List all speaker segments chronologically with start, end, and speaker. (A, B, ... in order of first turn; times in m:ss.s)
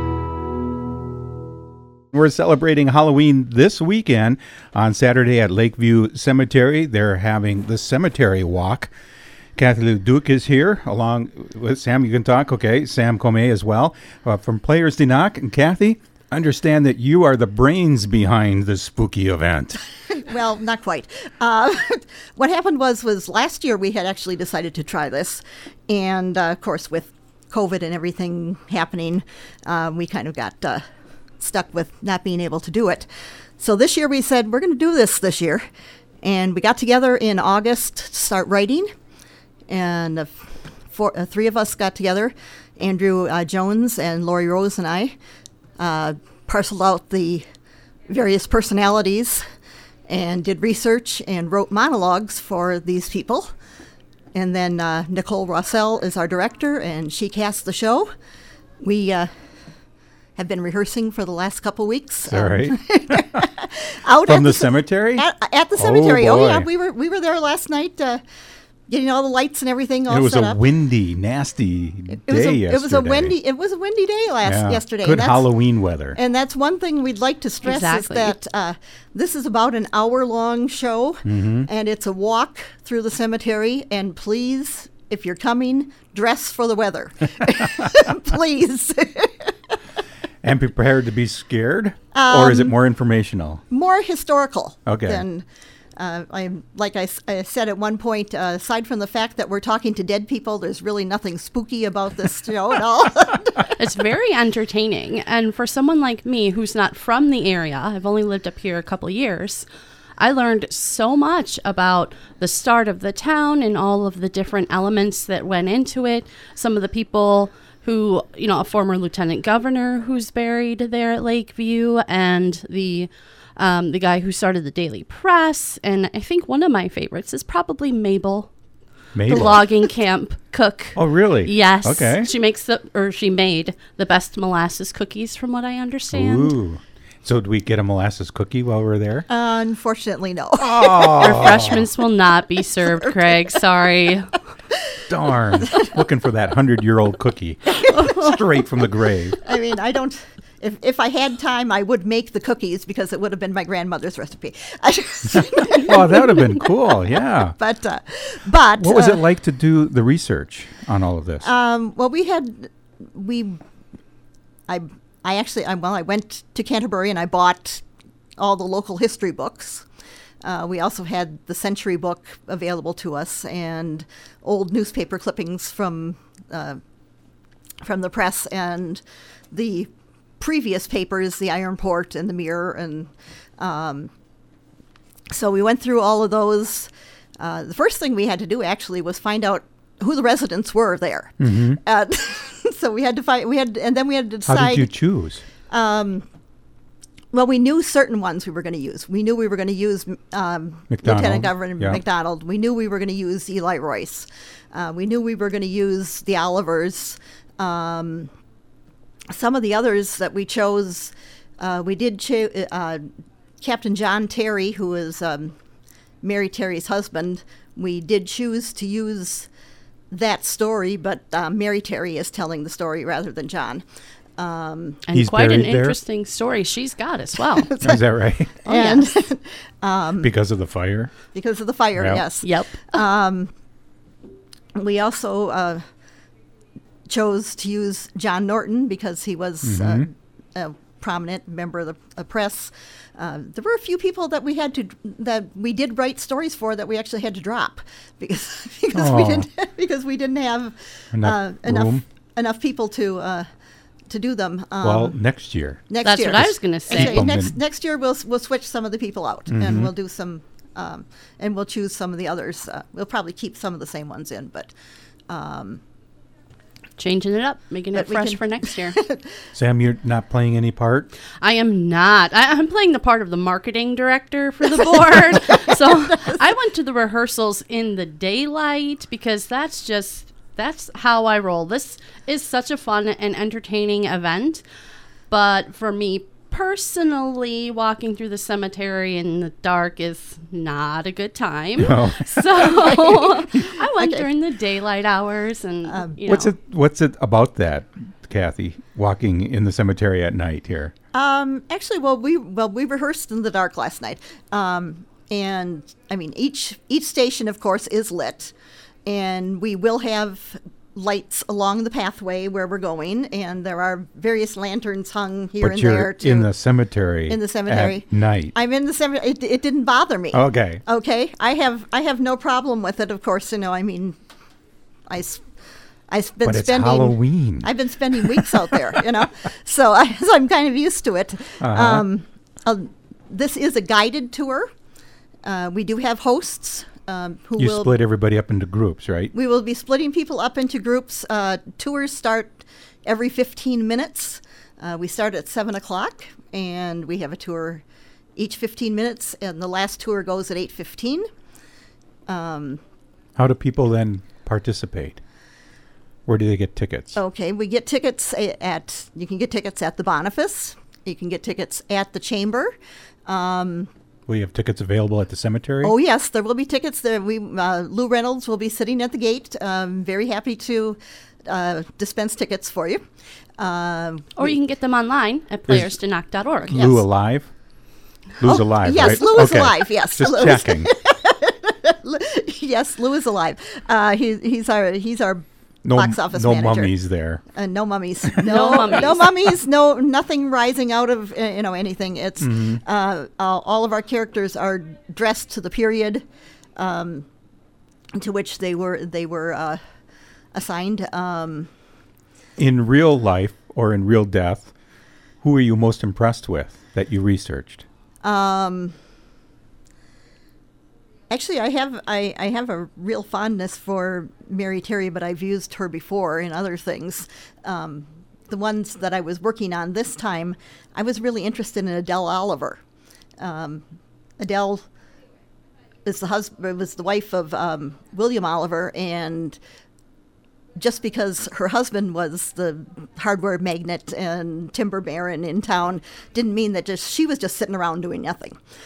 0:02.1-0:08.9 A
0:09.6-0:19.8 A
0:20.2-0:30.8 B
0:31.4-0:33.1 B
0:33.6-0:35.6 B
0:36.2-0:38.9 B
0:39.7-0:45.2 B
0:45.8-0:47.4 B
0:48.1-0:49.4 B
0:50.1-0:53.5 B
0:54.3-0:58.1 B
0:58.8-0:59.3 B
1:00.4-1:08.2 B
1:02.3-1:03.4 A
1:04.2-1:05.2 A
1:05.8-1:06.7 A
1:08.9-1:10.6 B
1:10.1-1:13.3 A
1:12.1-1:15.5 B
1:14.4-1:16.2 A
1:16.1-1:29.5 B
1:17.6-1:18.4 C
1:21.2-1:21.7 A
1:30.4-1:33.6 A
1:32.1-1:32.8 B
1:33.7-1:43.7 B
1:34.9-1:35.2 A
1:43.8-1:49.7 C
1:50.2-2:08.5 C
2:09.2-2:09.6 A
2:09.3-2:16.6 C
2:11.0-2:12.3 A
2:16.1-2:19.2 A
2:19.3-2:21.8 B
2:20.6-2:21.8 A
2:21.2-2:24.4 C
2:22.8-2:23.6 B
2:25.1-2:29.4 A
2:27.8-2:28.3 B
2:28.0-2:28.4 C
2:29.4-2:36.7 B
2:35.8-2:37.6 A
2:37.5-2:39.2 B
2:38.8-2:41.5 A
2:41.4-2:43.6 B
2:44.7-2:47.8 B
2:48.4-2:49.9 B
2:50.4-2:56.8 B
2:57.8-3:04.1 B
3:05.3-3:14.9 B
3:11.4-3:11.8 A
3:14.5-3:15.4 A
3:15.7-3:16.2 B
3:17.3-3:28.3 B
3:20.9-3:22.0 A
3:29.3-3:33.1 B
3:33.6-3:35.5 B
3:36.2-3:39.5 B
3:40.1-3:43.8 B
3:44.4-3:45.0 B
3:45.1-3:47.7 C
3:45.1-3:46.0 A
3:47.6-3:48.0 B
3:47.8-3:48.6 A
3:48.6-3:49.0 C
3:48.6-3:50.3 B
3:50.2-3:51.1 A
3:51.3-3:53.5 B
3:52.0-3:52.2 A
3:52.4-3:53.0 C
3:54.8-3:55.8 B
3:57.1-4:13.5 B
3:59.6-4:00.1 A
4:08.9-4:09.5 A
4:11.1-4:12.0 A
4:14.1-4:15.2 B
4:14.8-4:17.6 A
4:15.9-4:24.7 B
4:16.0-4:17.3 C
4:19.5-4:19.9 A
4:25.3-4:25.8 B
4:27.0-4:29.0 C
4:28.0-4:29.3 B
4:29.5-4:31.1 A
4:31.4-4:44.6 C
4:45.3-4:56.5 C
4:51.8-4:52.7 A
4:52.8-4:54.3 B
4:55.9-4:56.2 B
4:56.3-5:00.9 A
5:01.1-5:08.5 B
5:09.0-5:16.5 B
5:15.6-5:18.5 A
5:17.3-5:24.2 B
5:20.3-5:20.8 A
5:25.1-5:25.4 B
5:26.1-5:34.7 B
5:26.4-5:28.3 A
5:31.6-5:32.0 A
5:35.4-5:38.0 B
5:37.6-5:39.3 A
5:39.3-5:47.8 B
5:48.4-5:51.2 B
5:52.3-5:52.8 B
5:53.4-5:55.2 A
5:56.2-5:57.2 A
5:57.2-6:02.7 B
6:03.3-6:03.9 B
6:04.3-6:05.9 A
6:05.8-6:13.0 B
6:13.6-6:14.6 B
6:14.4-6:16.8 C
6:16.6-6:17.0 B
6:16.7-6:17.5 A
6:18.4-6:20.9 A
6:18.4-6:27.0 B
6:25.8-6:27.4 A
6:27.5-6:36.2 B
6:28.4-6:29.3 C
6:32.4-6:32.8 A
6:36.8-6:37.2 B
6:38.2-6:39.8 B
6:40.5-6:41.7 B
6:42.6-6:44.7 A
6:45.4-6:47.9 A
6:48.2-6:49.0 B
6:51.3-7:02.8 B
7:03.4-7:03.8 B
7:04.4-7:04.8 B
7:06.0-7:09.6 B
7:10.8-7:18.5 B